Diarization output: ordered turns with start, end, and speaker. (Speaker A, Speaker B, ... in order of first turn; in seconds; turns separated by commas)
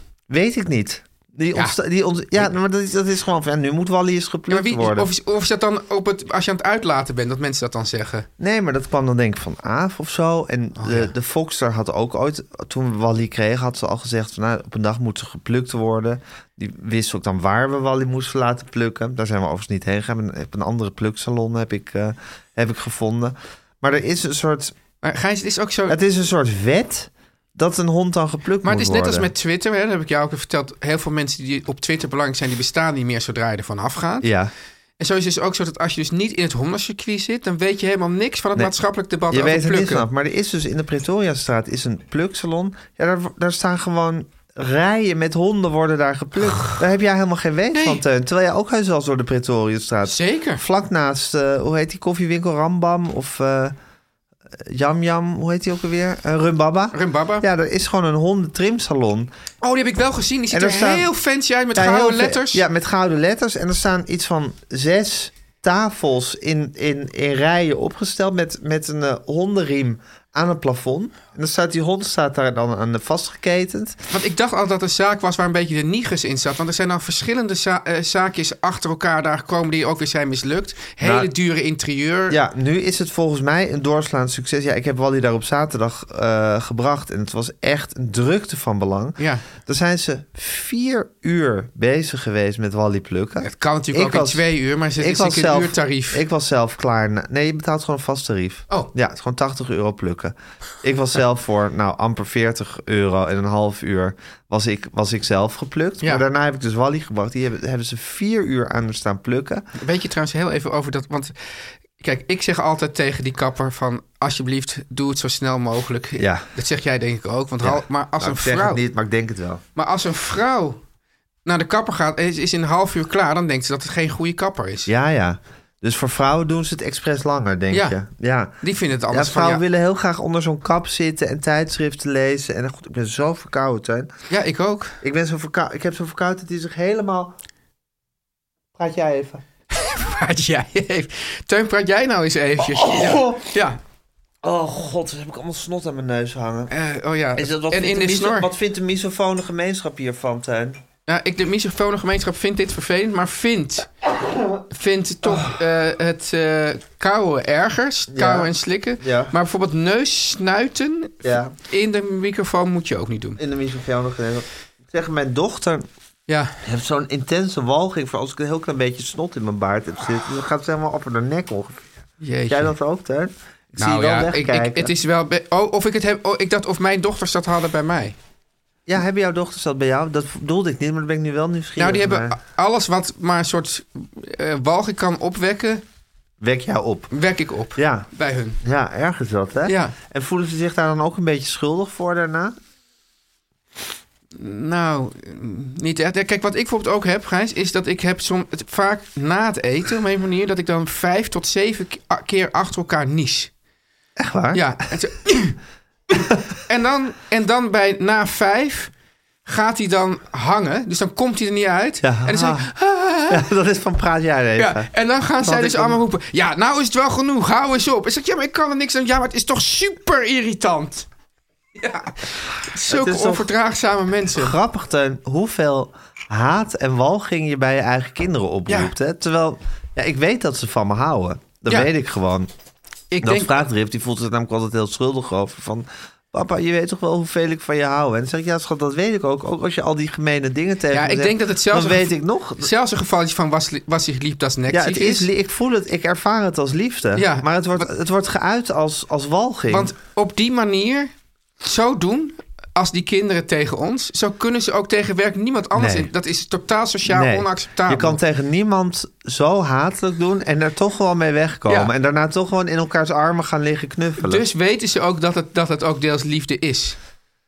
Speaker A: 0.3-5.1, Speaker B: 4.5-8.3, Speaker A: 8.4-24.8, Speaker B: 10.8-11.1, Speaker B: 25.0-26.0, Speaker A: 25.9-29.3, Speaker B: 28.6-34.3, Speaker A: 34.2-34.5, Speaker B: 35.0-40.1, Speaker A: 39.3-53.8, Speaker B: 46.5-46.8, Speaker B: 47.7-48.0, Speaker B: 50.1-50.6, Speaker A: 54.5-59.3, Speaker B: 56.9-57.5, Speaker B: 59.6-62.6, Speaker A: 60.5-61.1, Speaker A: 61.8-74.0, Speaker B: 74.1-82.4, Speaker A: 81.0-81.3, Speaker A: 82.3-94.4, Speaker B: 89.2-89.4, Speaker B: 93.4-96.2, Speaker A: 95.0-109.7, Speaker B: 109.8-111.3, Speaker B: 112.0-118.8, Speaker A: 116.2-116.5, Speaker A: 117.6-119.6, Speaker B: 119.8-120.8, Speaker B: 121.5-124.9, Speaker A: 124.9-128.5, Speaker B: 127.7-128.0, Speaker B: 128.6-129.6, Speaker A: 129.1-134.1, Speaker B: 134.3-135.0, Speaker A: 135.0-137.3, Speaker A: 138.8-139.4, Speaker B: 139.7-143.8, Speaker A: 142.6-143.4, Speaker A: 144.4-146.7, Speaker B: 146.7-148.5, Speaker A: 147.4-150.8, Speaker B: 151.1-153.9, Speaker B: 154.7-163.4, Speaker A: 158.1-159.3, Speaker A: 161.2-161.6, Speaker A: 163.4-165.9, Speaker B: 166.3-166.6, Speaker A: 166.6-171.9, Speaker B: 172.2-172.7, Speaker A: 172.5-174.9, Speaker B: 173.8-178.2, Speaker A: 178.9-182.4, Speaker B: 181.8-185.8, Speaker A: 186.4-187.1, Speaker B: 187.1-188.6, Speaker A: 187.8-188.1, Speaker A: 188.6-192.6, Speaker B: 189.7-189.9, Speaker B: 194.3-203.5, Speaker A: 204.2-204.6, Speaker B: 204.5-205.6, Speaker B: 206.1-208.9, Speaker B: 209.5-213.5, Speaker A: 212.0-212.7, Speaker A: 213.3-214.9, Speaker B: 214.6-221.1, Speaker A: 215.4-216.0, Speaker B: 221.8-224.6, Speaker A: 222.9-223.5, Speaker A: 224.3-232.5, Speaker B: 233.1-233.6, Speaker A: 233.2-242.7, Speaker B: 240.9-245.3, Speaker A: 244.7-249.9, Speaker B: 247.2-247.9, Speaker B: 249.7-258.2, Speaker A: 255.8-256.1, Speaker A: 257.1-264.5, Speaker B: 264.2-267.0